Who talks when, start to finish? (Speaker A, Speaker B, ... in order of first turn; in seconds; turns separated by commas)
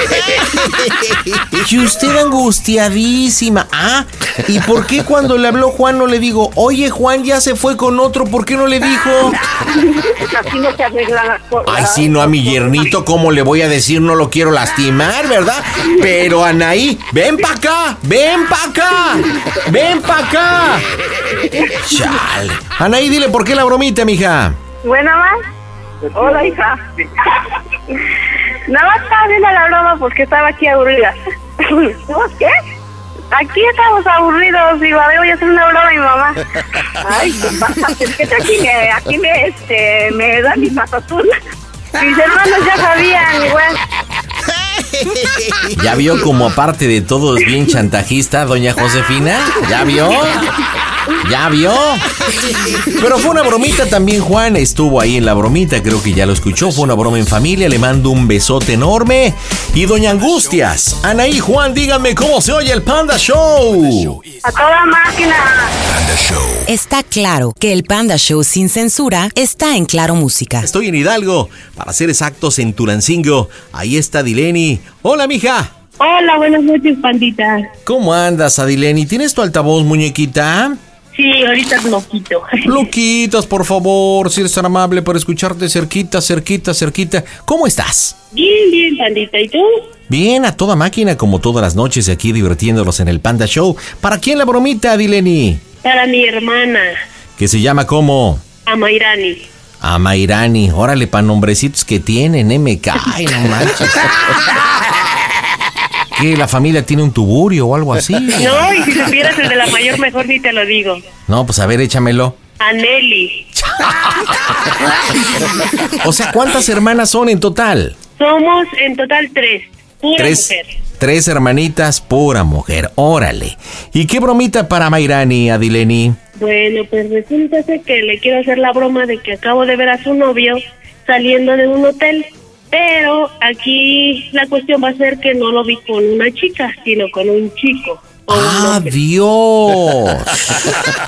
Speaker A: 1.5-9.4, Speaker B: 10.0-12.8, Speaker A: 11.7-20.9, Speaker A: 21.8-24.6, Speaker C: 24.9-25.4, Speaker B: 26.1-26.8, Speaker C: 28.7-31.2, Speaker B: 32.1-32.5, Speaker C: 33.3-36.4, Speaker B: 37.0-41.4, Speaker B: 42.0-42.4, Speaker C: 42.1-43.8, Speaker A: 45.7-50.5, Speaker A: 51.2-52.1, Speaker A: 53.0-64.2, Speaker C: 64.5-65.7, Speaker D: 66.7-70.7, Speaker A: 70.6-75.7, Speaker E: 76.0-77.7, Speaker A: 77.9-80.8, Speaker E: 81.1-82.8, Speaker A: 82.7-88.2, Speaker E: 88.3-89.9, Speaker A: 90.1-95.7, Speaker E: 95.8-97.0, Speaker A: 97.4-98.5, Speaker E: 98.7-99.5, Speaker A: 99.8-104.4, Speaker A: 106.1-108.7, Speaker E: 108.4-111.0, Speaker A: 111.3-112.4, Speaker E: 112.6-113.5, Speaker A: 113.6-114.3, Speaker A: 116.0-118.0, Speaker E: 118.2-120.7, Speaker A: 120.2-126.2, Speaker E: 126.4-138.9, Speaker A: 138.3-140.6